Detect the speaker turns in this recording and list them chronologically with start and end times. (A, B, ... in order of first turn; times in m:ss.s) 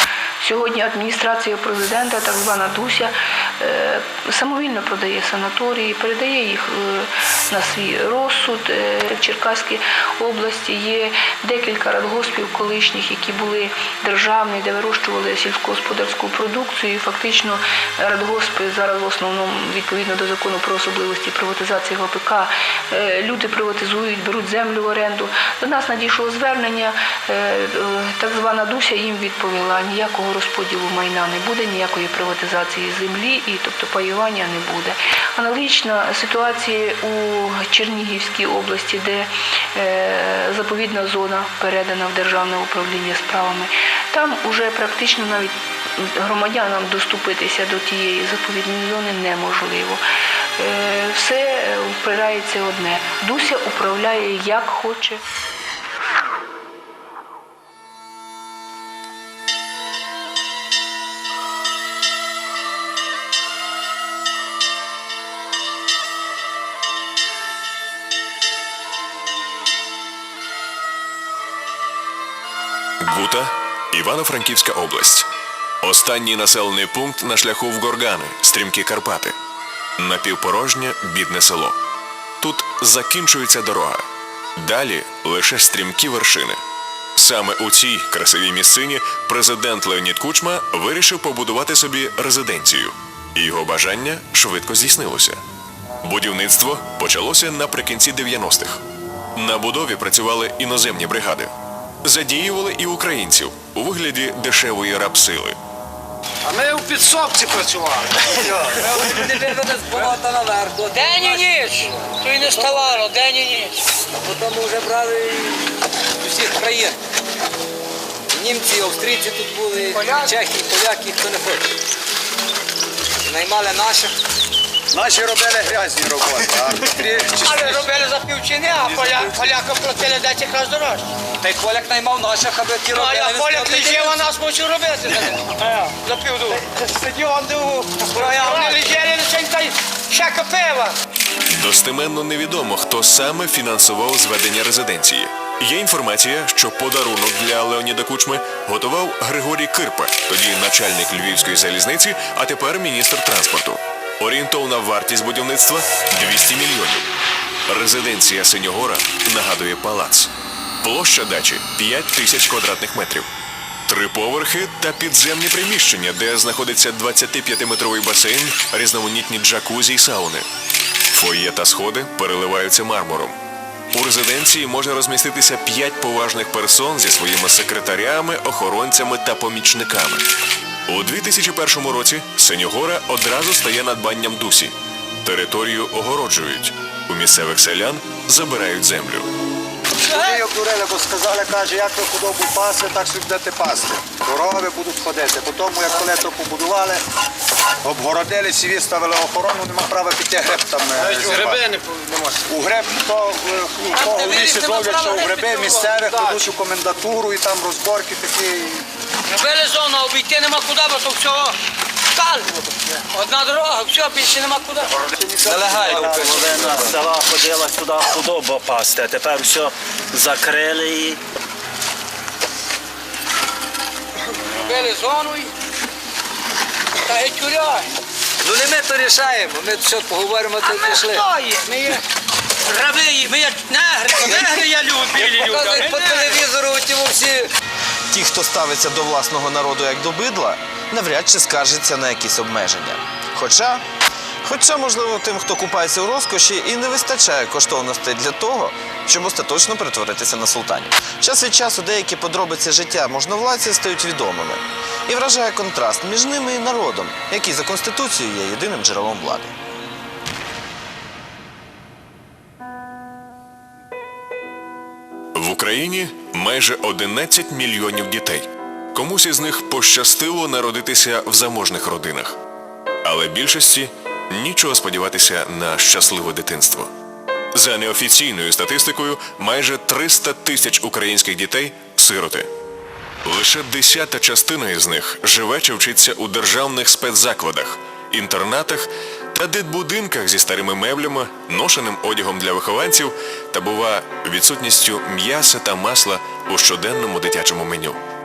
0:00.4-0:50.0 A
0:50.6-0:55.2 A
1:13.0-1:15.3 B
1:15.8-1:19.4 B
1:20.0-1:21.8 B
1:22.4-1:24.0 B
1:24.6-1:26.6 B
1:27.2-1:35.4 B
1:36.0-1:38.8 B
1:39.4-1:41.5 B
1:42.0-1:45.6 B
1:46.4-1:48.8 C
1:48.7-1:53.1 D
1:50.9-1:53.8 E
1:54.2-1:55.6 D
1:56.2-1:57.0 D
1:58.3-2:01.7 D
1:59.9-2:00.4 E
2:03.2-2:04.1 D
2:04.9-2:07.9 C
2:07.4-2:11.1 E
2:08.9-2:09.3 D
2:11.4-2:14.3 D
2:12.9-2:16.6 E
2:17.1-2:17.5 D
2:17.5-2:21.0 E
2:18.1-2:18.8 D
2:21.5-2:37.1 B
2:37.7-2:43.3 B
2:43.9-2:50.5 B
2:51.1-2:53.4 B
2:53.9-3:00.3 B
3:00.9-3:09.3 B
3:10.0-3:10.4 E
3:10.1-3:17.0 C
3:17.8-3:21.8 C
3:21.2-3:21.6 D
3:22.5-3:28.8 C
3:23.9-3:26.4 E
3:29.3-3:31.6 E
3:32.1-3:34.9 E
3:35.0-3:36.9 C
3:35.5-3:41.2 F
3:35.7-3:36.7 D
3:44.6-3:45.5 E
3:47.1-3:47.9 E
3:48.4-3:51.7 D
3:50.6-3:52.0 E
3:52.7-3:56.5 E
3:53.9-3:57.4 D
3:58.1-4:03.8 G
4:04.4-4:19.5 G
4:25.4-4:32.4 B
4:33.0-4:36.9 B
4:37.5-4:42.5 B
4:43.2-4:58.0 B